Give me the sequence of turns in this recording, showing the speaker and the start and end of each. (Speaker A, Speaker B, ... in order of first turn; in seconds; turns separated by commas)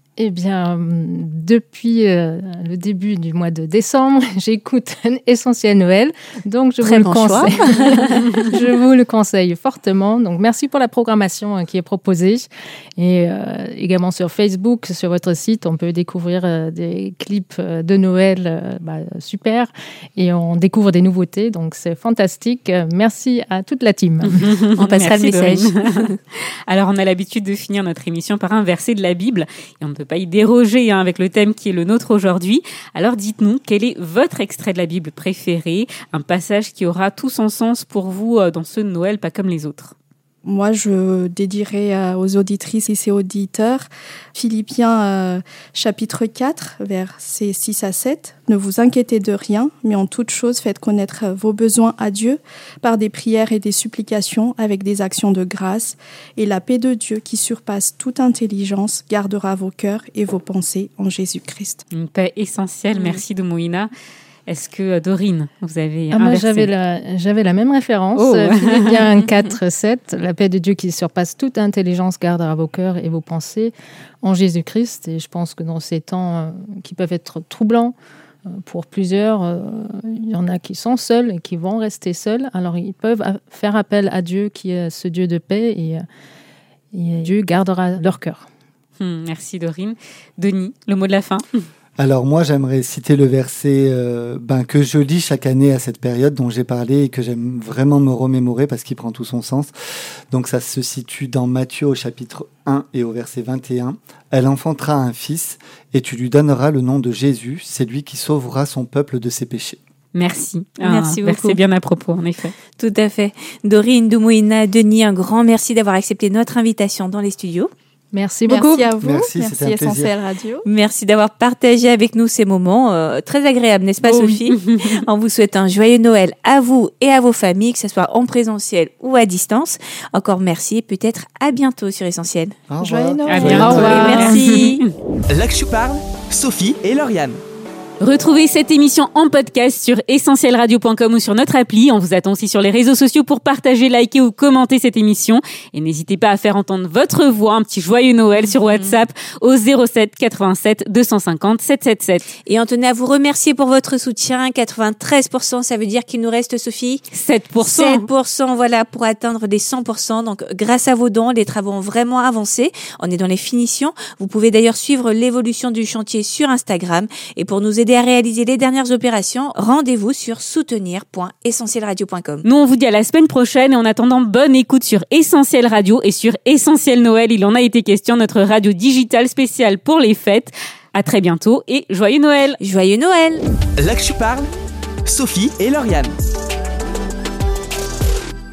Speaker A: 0.2-24.4, Speaker B: 6.8-8.2, Speaker C: 24.2-39.9, Speaker B: 24.7-26.1, Speaker D: 40.4-61.8, Speaker C: 61.9-63.9, Speaker B: 63.0-63.2, Speaker C: 64.5-66.7, Speaker A: 66.1-77.9, Speaker C: 68.2-69.1, Speaker A: 78.5-86.0, Speaker A: 86.9-88.5, Speaker C: 89.0-91.7, Speaker E: 92.0-99.7, Speaker E: 100.3-109.8, Speaker C: 110.1-112.5, Speaker B: 110.8-111.6, Speaker B: 112.7-117.7, Speaker A: 118.1-118.8, Speaker D: 118.5-120.7, Speaker E: 119.0-120.1, Speaker B: 120.6-132.7, Speaker C: 124.2-125.0, Speaker E: 132.7-134.0, Speaker D: 132.8-134.1, Speaker C: 133.3-134.9, Speaker B: 133.5-134.8, Speaker A: 133.5-134.4, Speaker F: 135.3-137.4, Speaker C: 138.0-152.3, Speaker B: 152.4-157.1, Speaker C: 157.1-158.1, Speaker B: 157.6-172.5, Speaker C: 172.4-182.6, Speaker B: 182.6-183.4, Speaker F: 183.8-184.5, Speaker F: 185.0-186.1